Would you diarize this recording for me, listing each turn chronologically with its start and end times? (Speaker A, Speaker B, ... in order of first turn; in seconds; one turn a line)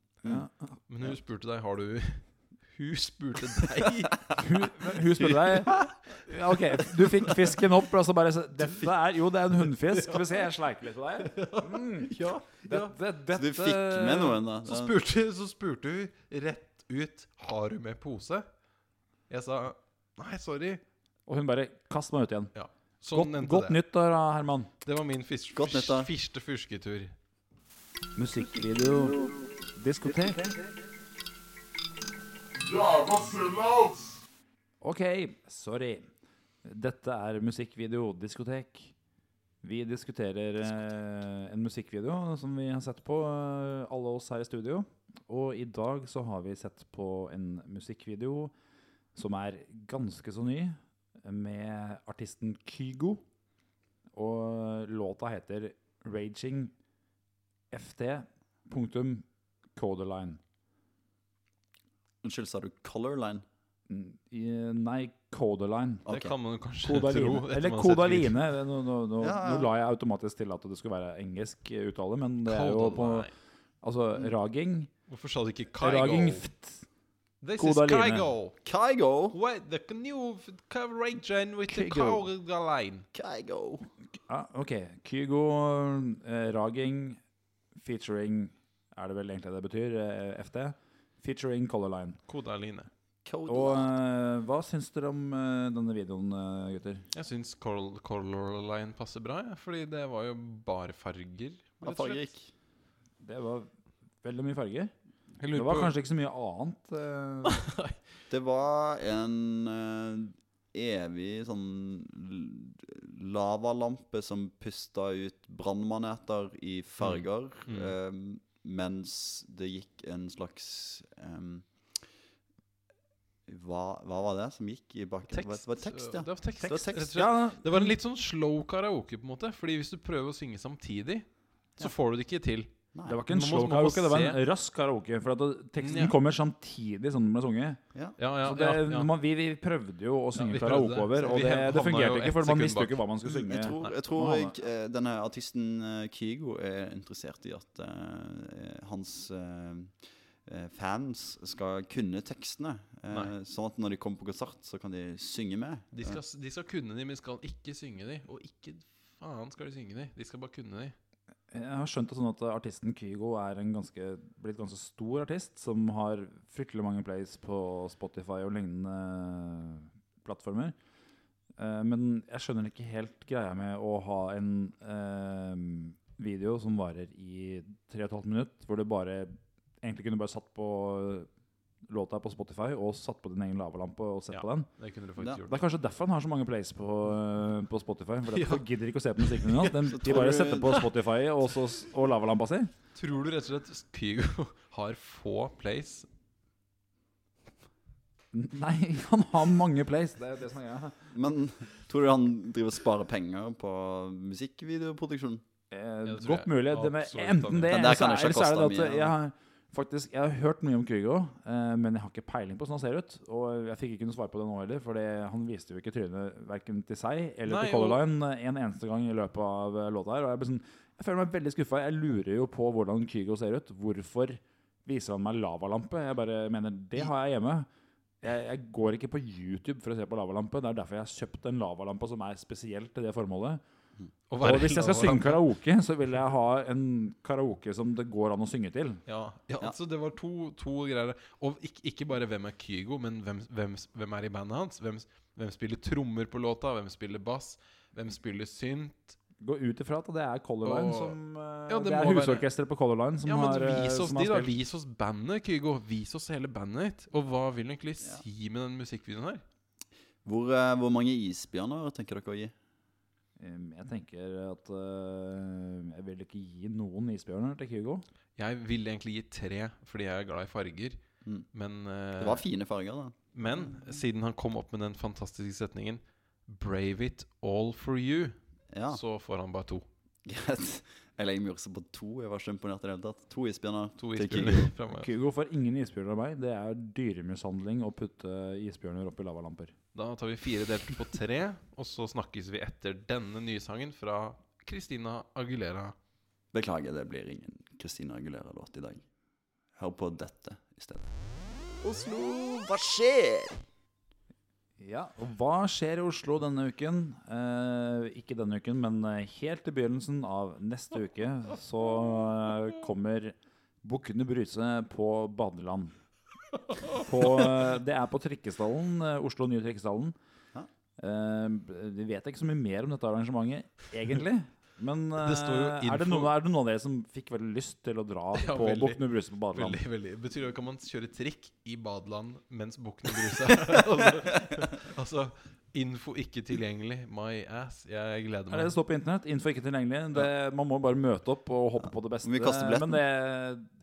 Speaker A: 0.2-0.8
Speaker B: 0.9-4.7
Speaker A: 4.3-14.4
Speaker B: 6.8-7.5
Speaker B: 9.7-10.5
Speaker B: 11.2-13.0
Speaker C: 13.3-14.9
Speaker B: 14.6-18.4
Speaker B: 19.3-20.8
Speaker A: 21.3-22.5
Speaker B: 22.5-23.8
Speaker A: 23.1-24.7
Speaker B: 24.8-27.1
Speaker C: 25.5-26.1
Speaker A: 28.1-30.5
Speaker A: 34.8-36.0
Speaker A: 36.6-38.9
Speaker A: 39.6-48.5
Speaker A: 49.1-53.2
Speaker A: 54.1-56.7
Speaker A: 57.7-60.4
Speaker C: 62.2-63.4
Speaker A: 63.9-66.0
Speaker C: 66.0-66.3
Speaker B: 66.1-68.4
Speaker A: 66.8-73.3
Speaker C: 69.2-69.7
Speaker B: 72.4-73.3
Speaker A: 73.8-74.9
Speaker B: 75.1-76.5
Speaker A: 75.8-76.8
Speaker B: 77.4-78.6
Speaker A: 77.5-78.3
Speaker C: 78.6-79.3
Speaker B: 79.3-83.0
Speaker A: 81.7-82.2
Speaker C: 83.1-83.9
Speaker A: 84.3-87.2
Speaker A: 87.7-92.2
Speaker B: 92.3-92.9
Speaker C: 93.2-94.0
Speaker A: 93.5-97.1
Speaker B: 97.1-102.3
Speaker C: 101.8-102.5
Speaker A: 103.2-103.7
Speaker A: 104.2-104.9
Speaker B: 105.4-105.9
Speaker A: 105.5-107.6
Speaker B: 107.4-108.0
Speaker C: 108.3-121.7
Speaker B: 117.0-118.0
Speaker C: 123.5-127.2
Speaker B: 125.3-134.4
Speaker A: 127.1-128.0
Speaker C: 132.9-133.2
Speaker A: 133.1-137.8
Speaker B: 135.8-136.2
Speaker B: 138.2-139.1
Speaker A: 138.4-144.5
Speaker B: 140.3-143.0
Speaker C: 143.2-149.9
Speaker C: 150.4-156.2
Speaker B: 155.9-160.9
Speaker A: 161.5-170.7
Speaker A: 171.6-181.3
Speaker A: 181.9-184.7
Speaker B: 184.3-185.7
Speaker A: 185.4-192.7
Speaker B: 188.3-188.6
Speaker B: 189.2-190.9
Speaker C: 189.9-190.8
Speaker B: 192.9-196.1
Speaker A: 198.3-201.1
Speaker C: 201.1-205.4
Speaker A: 205.7-227.7
Speaker B: 206.1-208.1
Speaker C: 207.7-209.1
Speaker B: 217.4-218.0
Speaker A: 228.2-233.6
Speaker B: 234.3-235.4
Speaker A: 234.4-239.0
Speaker B: 239.1-249.2
Speaker A: 249.4-254.6
Speaker B: 250.6-251.2
Speaker B: 251.7-252.4
Speaker B: 253.2-259.4
Speaker C: 260.2-262.5
Speaker A: 263.4-268.0
Speaker B: 268.4-271.0
Speaker B: 271.5-272.5
Speaker C: 272.2-273.7
Speaker B: 273.3-279.9
Speaker C: 278.7-279.0
Speaker C: 280.2-284.7
Speaker B: 284.0-285.1
Speaker A: 284.9-289.7
Speaker B: 289.9-295.9
Speaker C: 296.5-299.0
Speaker C: 299.8-301.1
Speaker C: 301.8-303.6
Speaker A: 304.8-315.9
Speaker A: 316.9-320.1
Speaker A: 321.0-329.8
Speaker B: 325.2-326.4
Speaker B: 328.3-338.7
Speaker A: 338.5-343.7
Speaker C: 342.2-343.0